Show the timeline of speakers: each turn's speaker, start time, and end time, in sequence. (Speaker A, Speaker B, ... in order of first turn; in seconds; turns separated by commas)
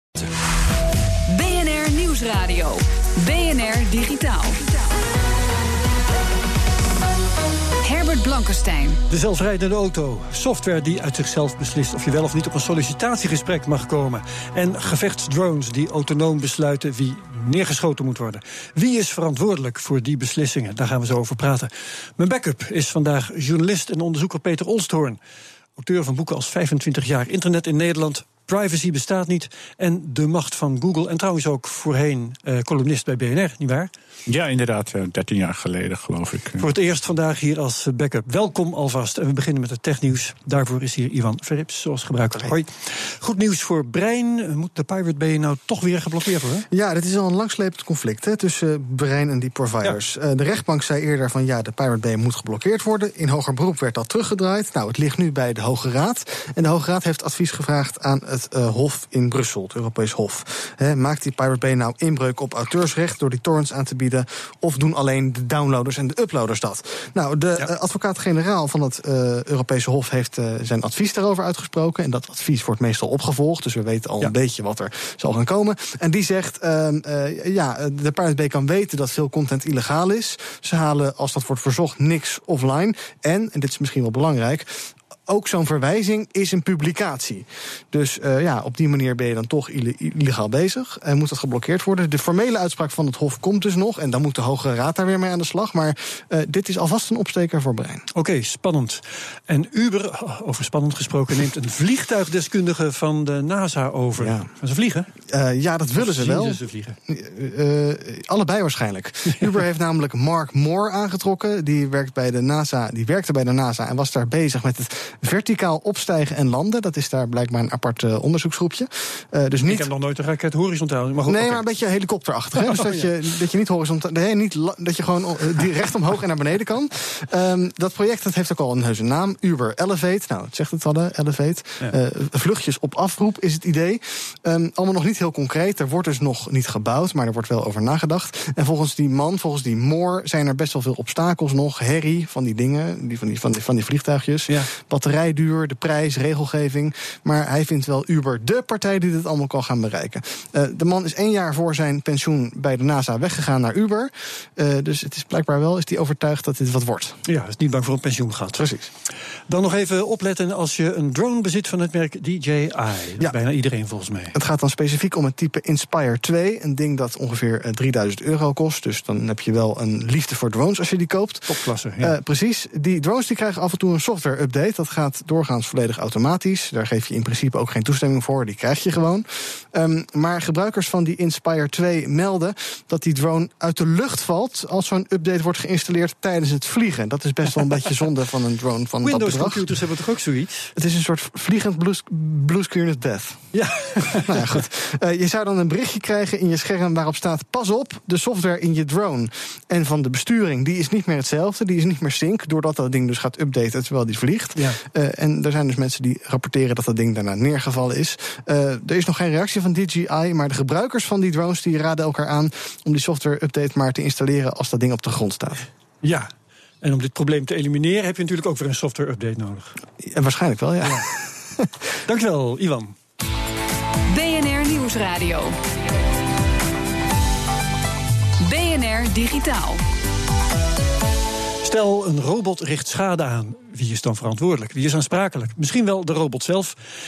Speaker A: 1.3-4.8, Speaker A: 7.8-9.0, Speaker B: 9.1-25.2, Speaker B: 25.8-33.9, Speaker C: 34.3-36.7, Speaker B: 36.6-46.6, Speaker D: 46.7-98.0, Speaker B: 98.1-105.1, Speaker D: 104.2-104.5, Speaker D: 105.3-119.9, Speaker B: 106.0-107.0, Speaker B: 119.6-121.6, Speaker D: 121.3-157.2, Speaker B: 122.6-123.1, Speaker B: 157.2-158.6, Speaker D: 158.6-158.9, Speaker B: 159.5-164.3, Speaker D: 164.3-189.7, Speaker B: 171.4-172.1, Speaker B: 189.0-190.7, Speaker D: 190.8-215.7, Speaker B: 193.5-194.4, Speaker B: 216.0-216.3, Speaker B: 216.8-219.8, Speaker D: 220.0-221.7, Speaker B: 222.1-222.9, Speaker A: 224.1-225.6, Speaker A: 228.4-229.8, Speaker B: 231.6-236.8